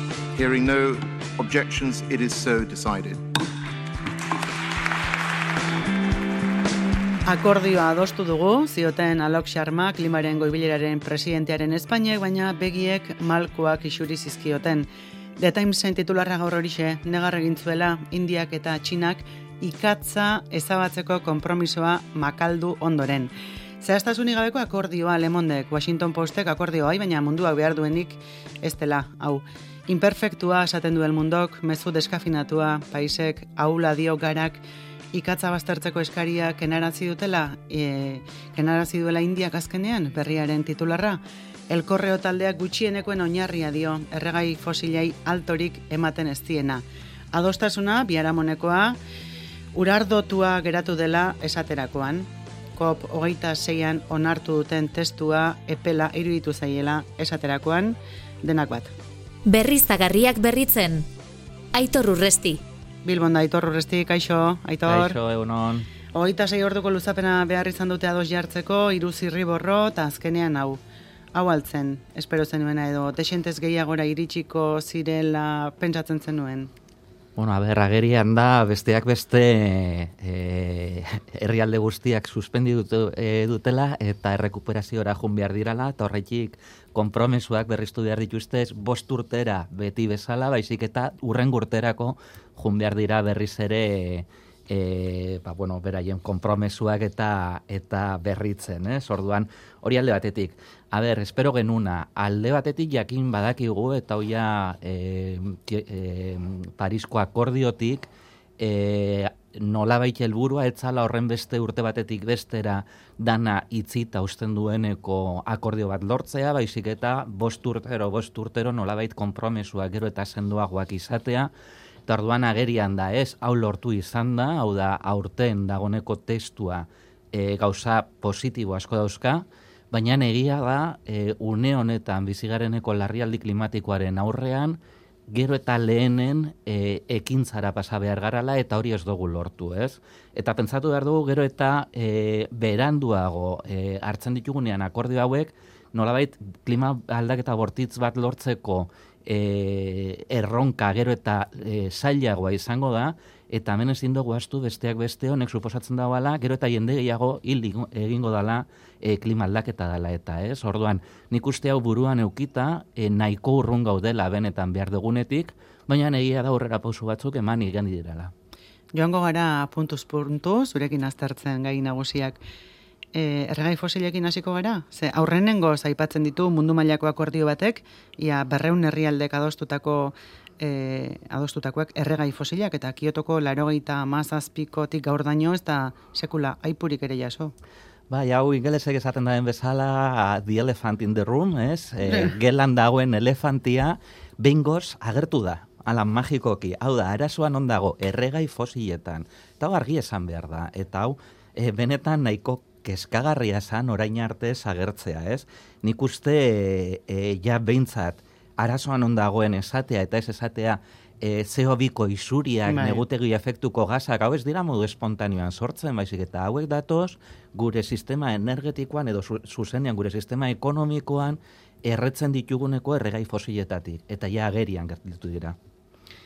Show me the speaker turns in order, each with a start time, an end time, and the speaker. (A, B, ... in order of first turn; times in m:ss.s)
0:00.3-0:03.2 A
0:07.2-0:49.0 B
0:49.7-0:58.9 B
0:59.4-1:01.0 C
1:01.7-1:02.6 C
1:03.0-1:05.2 B
1:04.8-1:05.9 D
1:06.1-1:10.8 B
1:11.3-1:16.7 B
1:17.4-2:01.5 D
2:02.1-2:48.3 D
2:48.9-2:52.4 B
2:53.1-3:07.5 B
3:08.1-3:45.6 D
3:32.6-3:33.0 B